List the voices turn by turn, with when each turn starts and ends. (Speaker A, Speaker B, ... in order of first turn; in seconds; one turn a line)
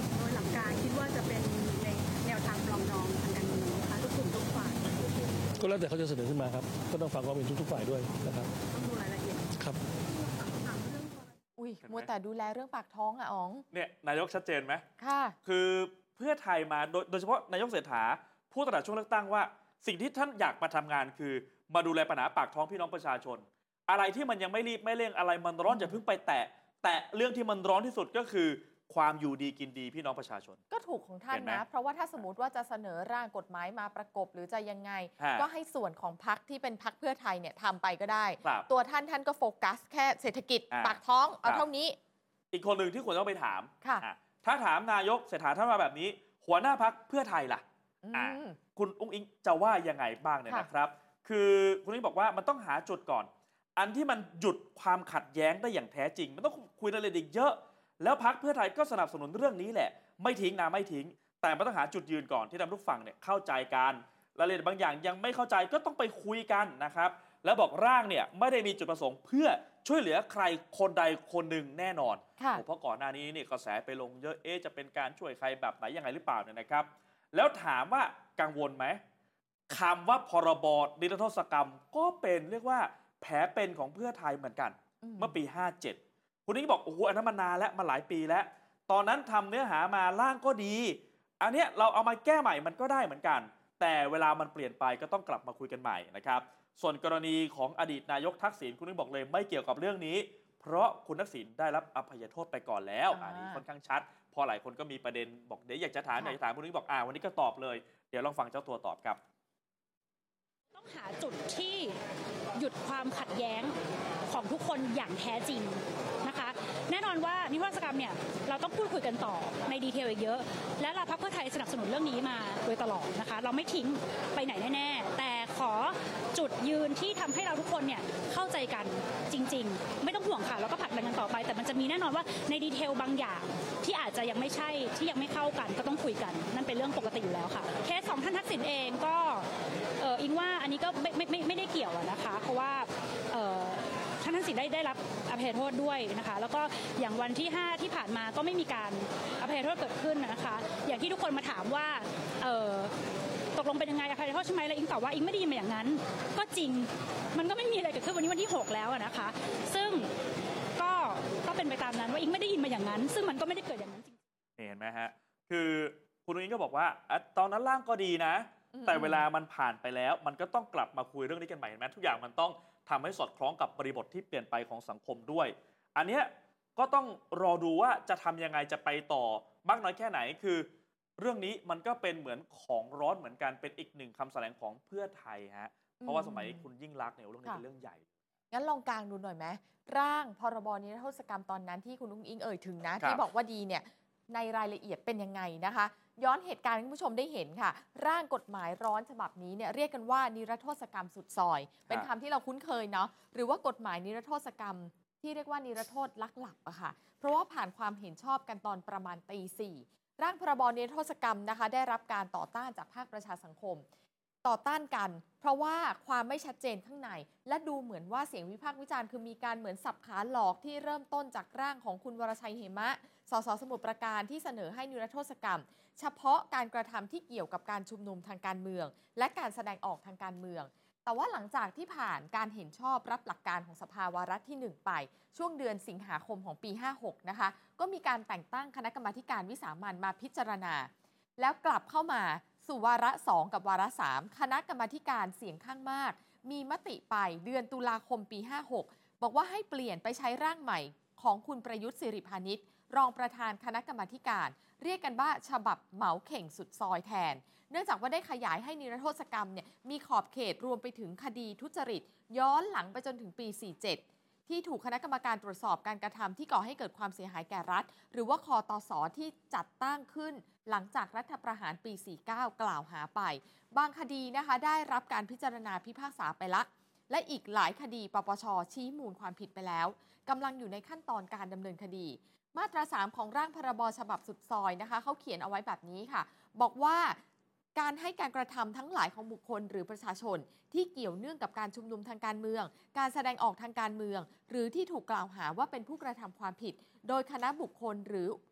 Speaker A: 0.1-5.0
Speaker B: 5.5-8.5
Speaker A: 8.7-9.5
Speaker B: 9.6-9.8
Speaker A: 10.2-11.3
Speaker C: 11.6-13.7
Speaker D: 11.8-12.1
Speaker D: 13.7-14.8
Speaker C: 15.0-15.4
Speaker D: 15.4-30.6
Speaker C: 25.7-26.0
Speaker C: 30.7-42.0
Speaker D: 31.3-31.6
Speaker D: 35.2-35.5
Speaker D: 40.7-41.6
Speaker D: 42.5-79.0
Speaker C: 48.0-48.6
Speaker D: 79.7-109.2
Speaker C: 85.0-85.4
Speaker C: 103.1-103.6
Speaker E: 110.7-112.0
Speaker E: 112.5-113.7
Speaker E: 114.3-139.5
Speaker E: 140.0-152.9
Speaker E: 153.6-160.1
Speaker E: 160.8-164.2
Speaker D: 164.6-188.1
Speaker C: 168.7-169.3
Speaker C: 186.0-186.6
Speaker C: 188.5-213.8
Speaker C: 214.4-287.2
Speaker C: 287.8-298.4